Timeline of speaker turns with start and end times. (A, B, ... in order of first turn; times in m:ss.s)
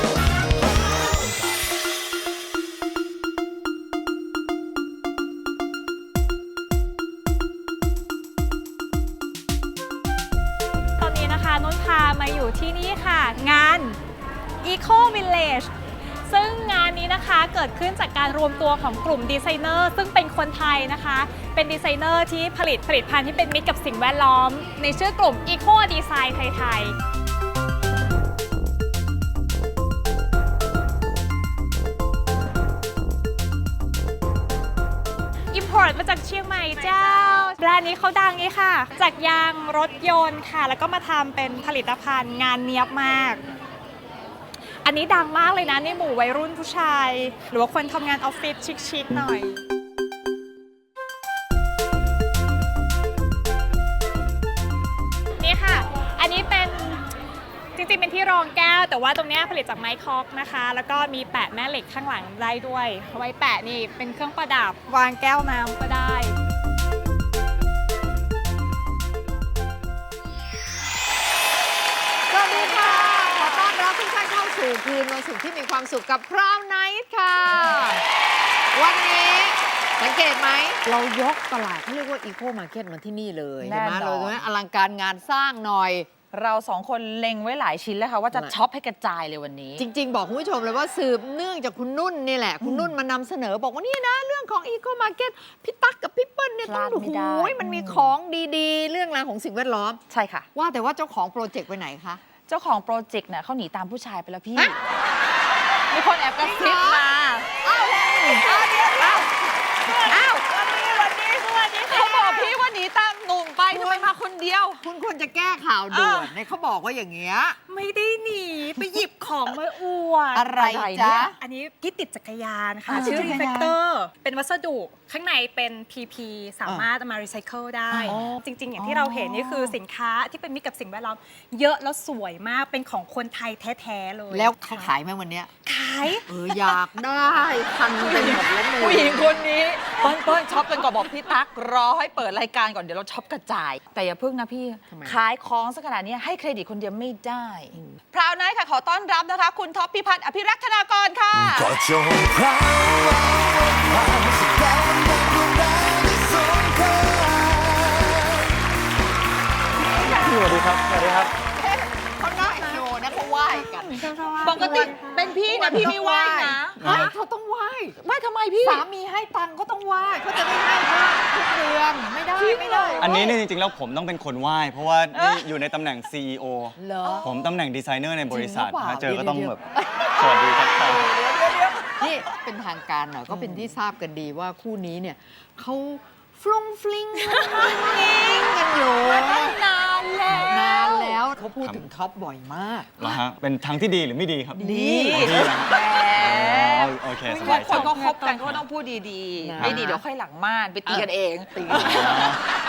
0:11.0-0:14.0 A
0:14.6-0:15.7 A
0:16.3-0:27.0 A
0:35.5-0:43.4 A
0:44.8-0:49.6 A
0:55.4-0:57.1 A
0:57.8-1:06.4 A
1:12.3-1:18.0 B
1:18.7-1:26.1 B
1:23.6-1:24.5 C
1:26.3-1:29.9 C
1:29.8-1:40.0 B
1:32.6-1:32.9 C
1:36.6-1:38.2 C
1:40.1-1:40.5 C
1:40.5-1:42.2 B
1:42.5-1:44.8 C
1:45.9-1:49.3 C
1:46.4-1:47.1 B
1:47.6-1:49.1 B
1:49.9-1:50.2 A
1:50.1-1:54.8 C
1:51.0-1:52.6 A
1:53.7-1:54.2 B
1:54.8-1:57.6 B
1:55.9-1:56.3 A
1:57.7-2:00.4 A
2:00.3-2:01.4 B
2:00.5-2:01.3 C
2:01.4-2:14.9 A
2:02.9-2:03.4 C
2:02.9-2:03.8 B
2:07.9-2:09.8 C
2:08.0-2:09.6 B
2:14.3-2:15.5 B
2:15.6-2:16.6 A
2:16.3-2:19.4 B
2:18.0-2:31.8 C
2:24.9-2:25.2 B
2:31.5-2:38.4 D
2:40.1-2:41.3 E
2:41.4-2:48.0 B
2:43.6-2:47.0 C
2:46.8-2:47.1 E
2:48.0-2:48.8 C
2:48.6-2:53.3 B
2:52.4-2:53.3 C
2:53.0-2:59.6 E
2:55.1-2:55.4 C
2:56.8-2:57.5 B
2:58.3-3:09.6 B
3:00.2-3:01.2 E
3:03.3-3:03.7 C
3:07.5-3:11.2 C
3:10.3-3:12.9 B
3:13.0-3:18.7 E
3:14.6-3:15.5 B
3:14.6-3:22.2 C
3:17.3-3:18.4 A
3:19.4-3:20.0 B
3:19.6-3:19.9 E
3:20.9-3:22.3 B
3:21.7-3:22.4 E